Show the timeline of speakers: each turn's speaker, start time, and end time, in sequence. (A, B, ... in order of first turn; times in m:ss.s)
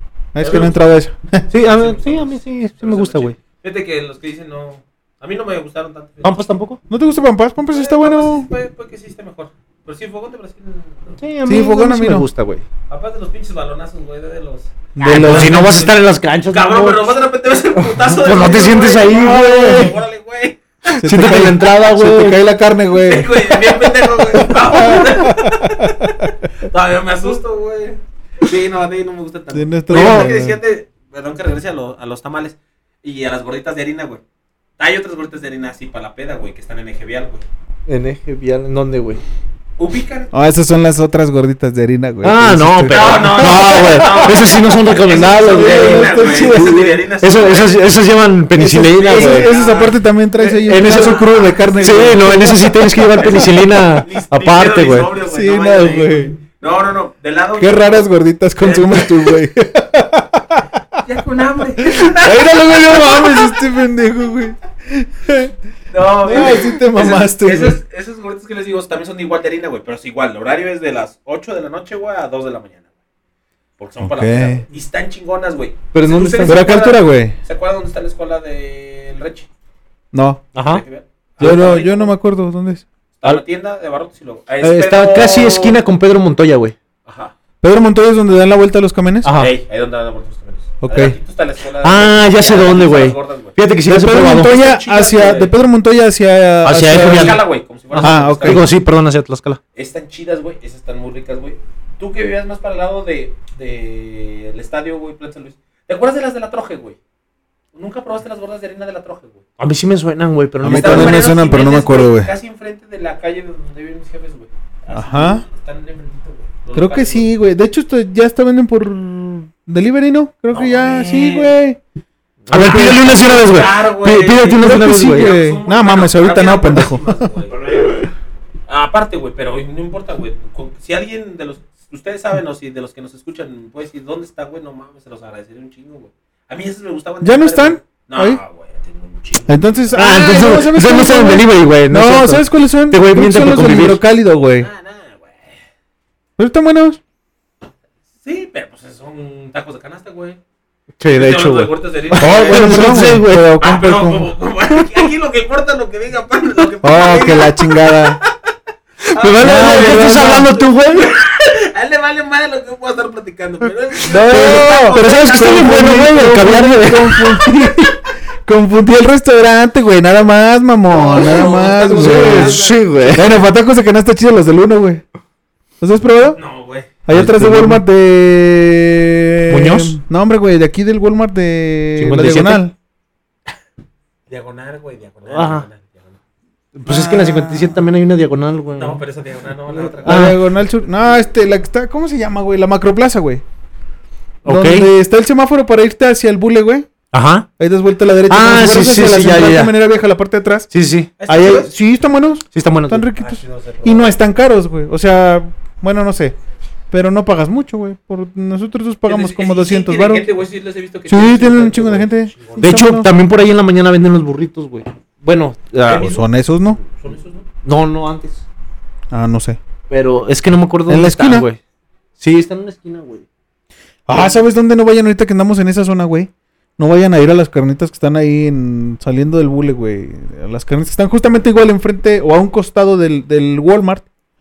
0:00.3-0:01.4 A
0:00.4-0:00.8 B
0:01.5-0:03.4 C
0:01.5-0:06.4 B
0:06.2-0:06.8 C
0:06.9-0:08.5 A
0:07.7-0:11.2 B
0:11.2-0:12.6 C
0:11.4-0:12.3 A
0:12.9-0:16.0 B
0:15.0-0:15.8 A
0:15.0-0:17.2 C
0:16.5-0:20.6 B
0:17.8-0:19.9 C
0:19.1-0:19.9 A
0:20.9-0:22.4 C
0:21.0-0:23.4 A
0:23.0-0:25.9 B
0:24.3-0:26.1 A
0:26.6-0:34.2 B
0:29.5-0:30.6 A
0:29.9-0:30.3 C
0:34.8-0:37.4 B
0:37.9-0:39.2 C
0:39.8-0:40.3 B
0:40.3-0:44.4 A
0:42.2-0:49.5 C
0:42.9-0:47.9 B
0:45.2-0:47.0 A
0:48.6-0:53.1 A
0:49.0-0:50.0 B
0:50.4-0:51.3 C
0:50.7-0:58.1 B
0:51.8-0:55.1 C
0:55.2-0:56.4 A
0:57.6-1:00.8 A
0:58.6-0:59.1 B
1:01.0-1:03.4 B
1:01.8-1:05.5 A
1:05.9-1:12.8 B
1:06.2-1:07.8 A
1:06.3-1:06.6 C
1:13.8-1:19.5 B
1:14.0-1:14.6 A
1:15.9-1:16.7 C
1:16.4-1:17.4 A
1:20.1-1:20.4 A
1:20.6-1:20.8 C
1:20.6-1:22.1 B
1:21.4-1:22.8 A
1:23.2-1:25.8 B
1:24.6-1:26.7 C
1:27.0-1:27.3 B
1:27.6-1:29.3 A
1:29.2-1:29.6 C
1:29.4-1:33.6 B
1:30.8-1:31.2 A
1:31.8-1:34.5 C
1:33.9-1:37.4 A
1:34.2-1:35.5 B
1:36.6-1:39.6 C
1:36.9-1:38.7 B
1:38.0-1:38.7 A
1:39.8-1:47.0 B
1:47.7-1:49.4 B
1:49.6-1:51.2 C
1:50.6-1:52.3 A
1:50.6-1:57.3 B
1:54.9-1:55.4 A
1:56.7-2:01.8 A
2:00.5-2:01.5 B
2:02.5-2:05.3 C
2:02.5-2:03.1 A
2:02.7-2:07.9 B
2:04.6-2:07.3 A
2:08.7-2:20.0 B
2:17.2-2:18.4 A
2:19.5-2:24.7 A
2:19.9-2:24.0 C
2:24.6-2:25.6 B
2:26.4-2:27.0 A
2:28.2-2:30.4 B
2:31.0-2:33.6 C
2:31.1-2:38.3 B
2:32.2-2:34.3 A
2:36.8-2:38.2 A
2:39.1-2:41.1 C
2:39.2-2:45.9 B
2:39.4-2:40.6 A
2:44.1-2:47.9 C
2:44.1-2:47.9 A
2:48.4-2:55.0 A
2:50.9-2:52.9 B
2:51.2-2:53.3 C
2:55.8-2:56.4 A
2:56.3-2:56.9 B
2:57.0-3:02.7 A
2:57.1-2:57.8 C
2:59.5-3:00.0 C
3:02.0-3:02.6 C
3:04.3-3:06.2 B
3:05.3-3:05.7 C
3:06.7-3:09.0 C
3:06.9-3:07.8 A
3:08.8-3:10.4 B
3:10.0-3:10.4 C
3:10.0-3:13.4 A
3:14.4-3:14.9 C
3:14.4-3:16.9 A
3:17.1-3:17.5 C
3:17.6-3:20.7 A
3:18.3-3:19.7 C
3:20.7-3:21.3 C
3:21.2-3:21.8 B
3:21.3-3:26.4 A
3:22.5-3:23.1 C
3:23.2-3:24.2 B
3:26.9-3:30.3 A
3:29.0-3:32.7 B
3:31.1-3:33.1 A
3:32.6-3:36.1 C
3:35.9-3:36.3 B
3:35.9-3:36.8 A
3:36.8-3:37.4 B
3:37.6-3:38.4 C
3:39.1-3:39.6 A
3:39.9-3:41.6 C
3:40.9-3:41.4 A
3:42.2-3:43.3 C
3:44.1-3:54.0 A